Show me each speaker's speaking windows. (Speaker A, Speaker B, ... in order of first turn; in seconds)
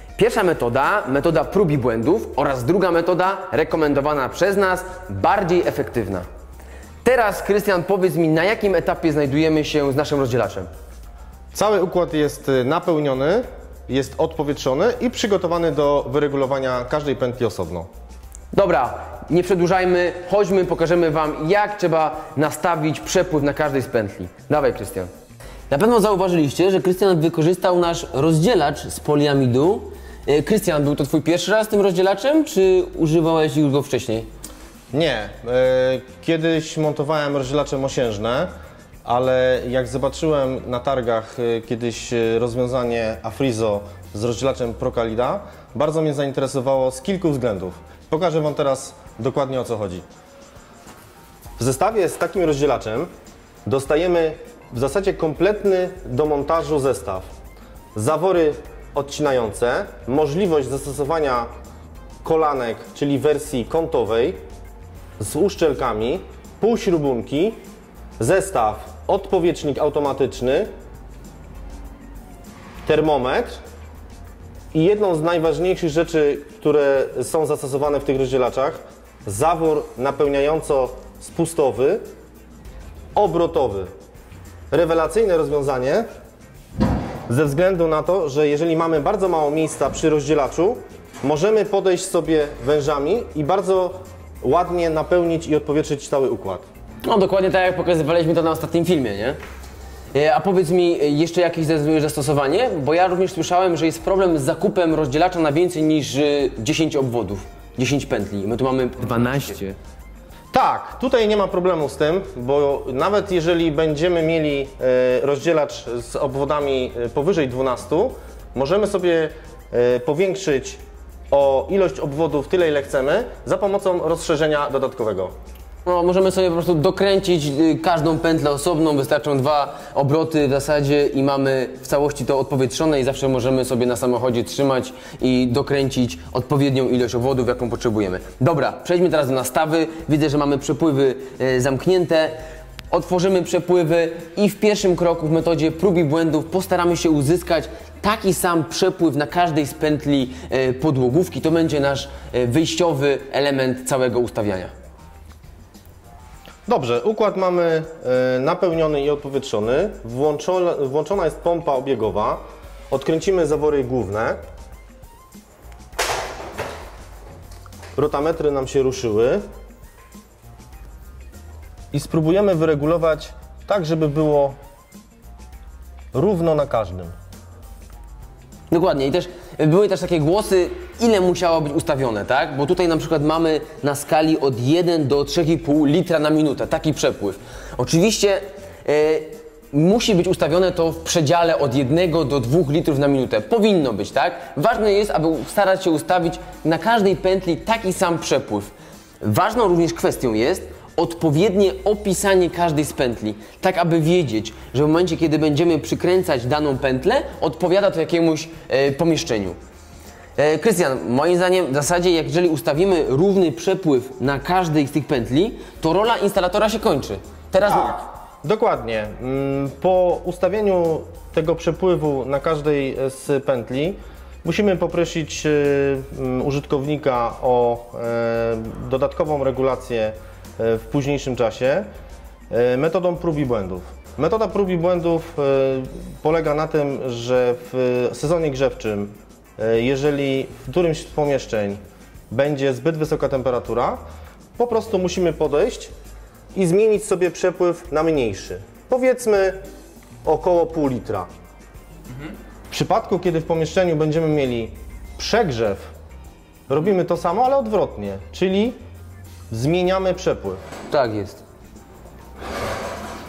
Speaker A: 0.2-6.2, 7.0-10.7, 18.5-25.1, 25.7-34.3, 97.0-99.4, 100.1-109.8, 125.8-142.4, 142.9-154.7, 178.7-209.6, 210.4-218.0, 260.9-261.4
Speaker B: 11.5-17.9, 34.9-38.5, 39.0-50.0, 51.6-53.1, 53.7-57.3, 58.0-61.5, 62.2-64.4, 65.2-67.6, 68.2-70.7, 72.8-73.6, 74.7-82.0, 83.2-83.9, 84.7-86.0, 87.3-96.6, 110.5-125.3, 156.7-164.4, 168.0-169.4, 171.9-174.6, 176.1-177.2, 218.4-231.9, 232.5-241.8, 242.3-244.0, 244.6-245.9, 246.5-249.6, 250.2-251.3, 252.7-255.9, 256.7-258.8, 259.5-260.6